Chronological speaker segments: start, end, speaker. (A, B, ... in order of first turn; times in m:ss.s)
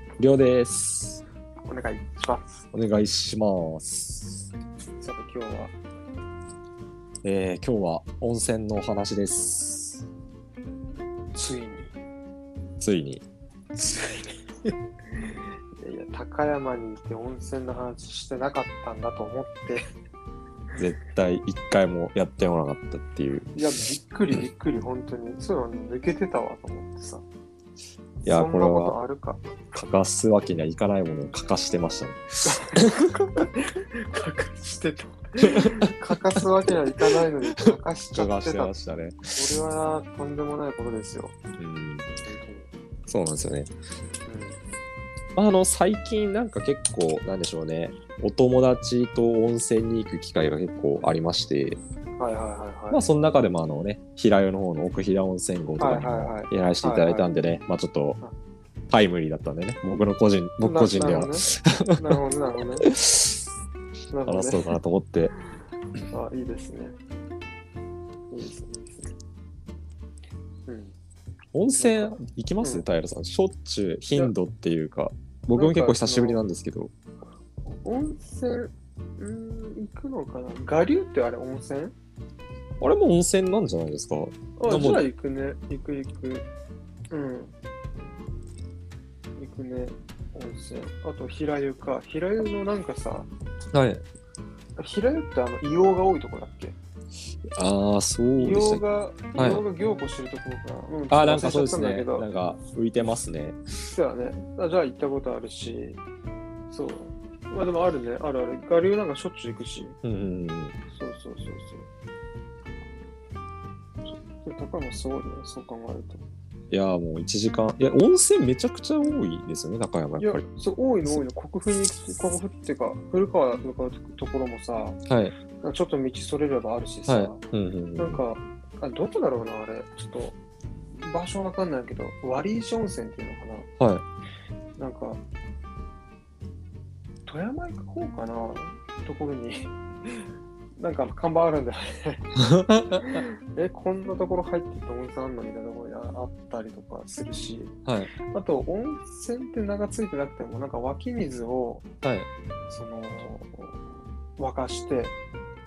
0:00.2-0:01.2 A
0:01.6-0:02.6 B
0:02.7-0:04.5 A
0:05.0-0:05.7 B
0:07.2-0:10.1 A
0:11.3-0:11.9 B
0:12.8-0:13.2 A
0:14.6-0:19.9 B
0:20.8-0:23.5 A
0:23.5-0:27.2 B
0:28.2-0:29.0 A
0:28.2-0:29.4 B
0:29.7-0:33.0 A
0:32.4-0:38.7 B
0:35.4-0:36.7 A
0:37.6-0:39.4 A
0:39.3-0:41.3 B
0:41.6-0:42.1 A
0:42.2-0:42.7 B
0:43.1-0:43.7 A
0:44.3-0:44.6 B
0:45.4-0:51.8 A
0:52.2-0:53.1 B
0:52.9-0:58.2 A
0:55.8-0:57.3 B
0:58.9-1:02.1 A
1:00.6-1:02.9 B
1:02.8-1:03.4 A
1:04.1-1:04.7 B
1:04.3-1:05.3 A
1:06.1-1:07.0 B
1:08.3-1:09.2 B
1:10.7-1:10.9 B
1:11.5-1:16.9 A
1:11.8-1:12.9 B
1:15.5-1:16.4 B
1:17.7-1:21.9 B
1:22.8-1:25.1 A
1:24.6-1:26.5 B
1:27.1-1:27.5 B
1:29.4-1:33.3 B
1:33.7-1:34.0 A
1:34.8-1:36.8 B
1:37.6-1:38.8 A
1:38.4-1:42.3 B
1:39.3-1:39.6 A
1:41.1-1:43.6 A
1:43.8-1:46.0 B
1:46.7-1:50.0 B
1:50.0-1:50.8 A
1:50.9-1:51.9 B
1:54.1-1:56.2 B
1:56.7-2:00.4 A
2:00.2-2:05.0 B
2:05.1-2:05.4 A
2:05.6-2:07.4 B
2:07.1-2:08.2 A
2:08.0-2:10.4 B
2:11.0-2:13.7 B
2:14.8-2:15.2 B
2:17.2-2:31.8 B
2:22.4-2:23.0 A
2:27.8-2:28.1 A
2:32.0-2:32.3 A
2:32.7-2:33.8 B
2:34.4-2:35.2 B